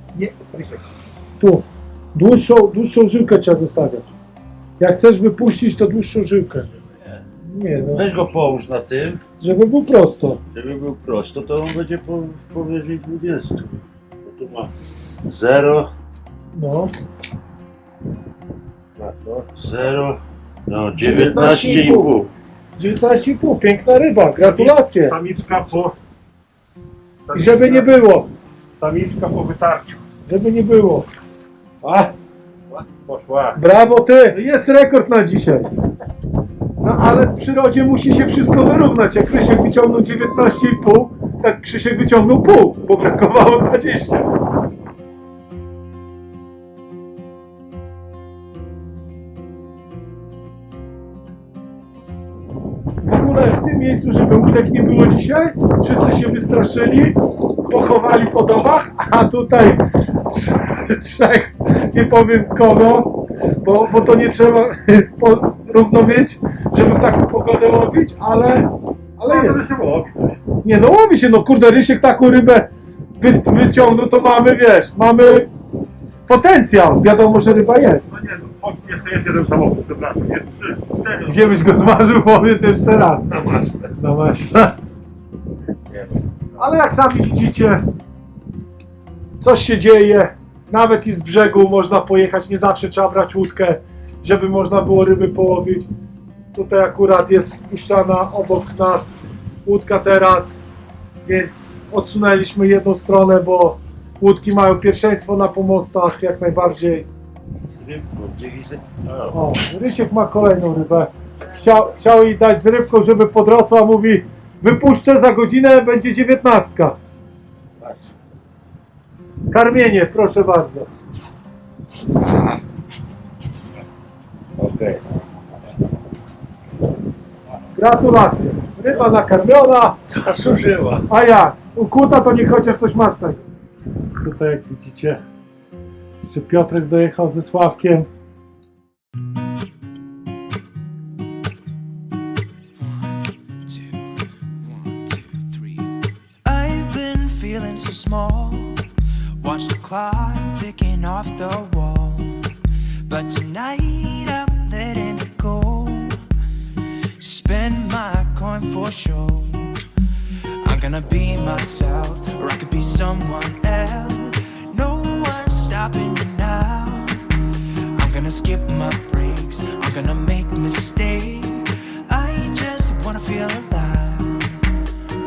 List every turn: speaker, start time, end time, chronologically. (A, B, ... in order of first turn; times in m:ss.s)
0:00.1-0:00.8 A
0:01.4-0:04.1 B
0:04.8-0:06.7 B
0:07.4-0:08.1 B
0:07.9-0:09.2 A
0:09.4-0:10.4 B
0:10.5-0:14.7 A
0:15.2-0:15.9 A
0:16.5-0:16.9 B
0:19.0-0:22.3 A
0:21.0-0:22.1 B
0:22.8-0:25.2 B
0:24.4-0:25.9 C
0:27.3-0:27.9 C
0:27.3-0:28.3 B
0:28.8-0:30.0 C
0:30.2-0:31.1 B
0:31.8-0:32.1 B
0:32.7-0:33.6 C
0:33.5-0:35.7 B
0:36.8-0:44.3 B
0:53.0-1:08.7 B
1:09.2-1:10.4 C
1:09.2-1:09.6 B
1:10.6-1:15.5 B
1:16.3-1:18.1 B
1:18.1-1:21.6 C
1:21.3-1:23.3 B
1:23.3-1:23.8 C
1:24.0-1:24.7 B
1:26.6-1:27.8 B
1:29.4-1:35.9 B
1:36.5-1:39.1 B
1:39.6-1:40.6 B
1:41.2-1:47.1 B
1:47.7-1:49.4 A
1:49.3-1:57.0 B
1:59.5-2:00.9 B
2:02.2-2:02.6 A
2:04.6-2:05.0 A
2:07.7-2:10.0 B
2:10.1-2:11.1 A
2:11.1-2:13.4 B
2:14.2-2:15.2 B
2:16.2-2:18.1 B
2:22.8-2:25.9 D
2:26.4-2:28.8 D
2:29.4-2:32.4 D
2:33.1-2:36.2 D
2:37.2-2:39.8 D
2:40.6-2:54.7 D